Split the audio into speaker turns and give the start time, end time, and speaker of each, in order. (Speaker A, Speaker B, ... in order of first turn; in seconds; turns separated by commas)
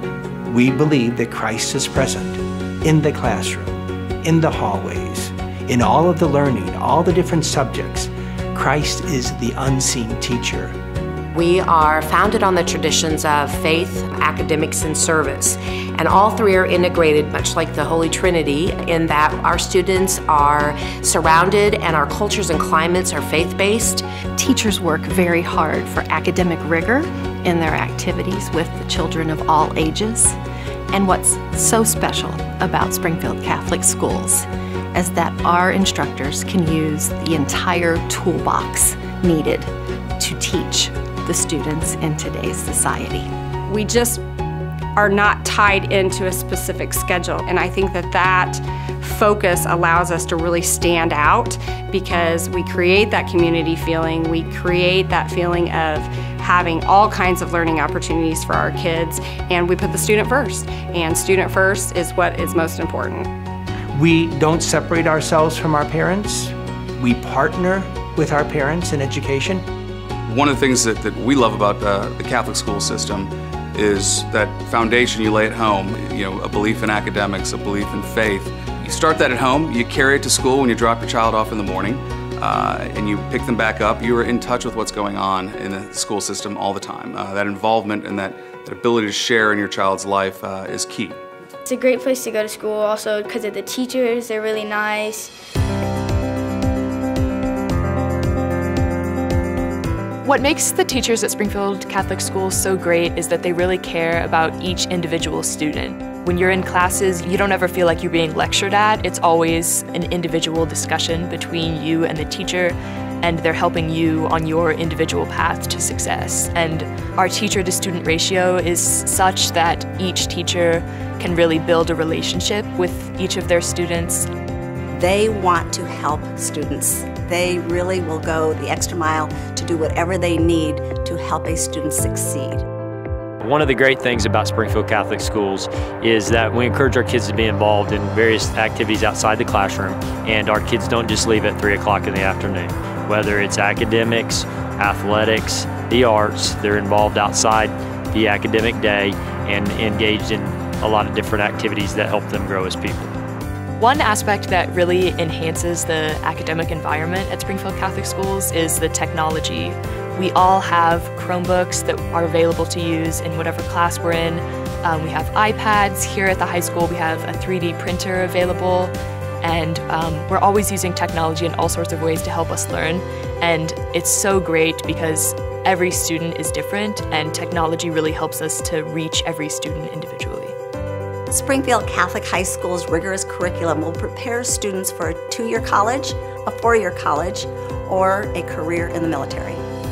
Speaker A: 0.5-10.8, Speaker B: 11.3-24.2, Speaker C: 24.4-30.3, Speaker C: 30.9-39.6, Speaker C: 40.2-43.2, Speaker D: 43.7-44.2, Speaker D: 45.0-63.3, Speaker A: 63.9-69.7, Speaker E: 70.3-91.2, Speaker F: 91.7-95.3, Speaker G: 100.2-124.3, Speaker H: 124.9-132.6, Speaker I: 133.4-147.6, Speaker I: 148.2-153.1, Speaker G: 153.8-180.6, Speaker H: 181.3-189.6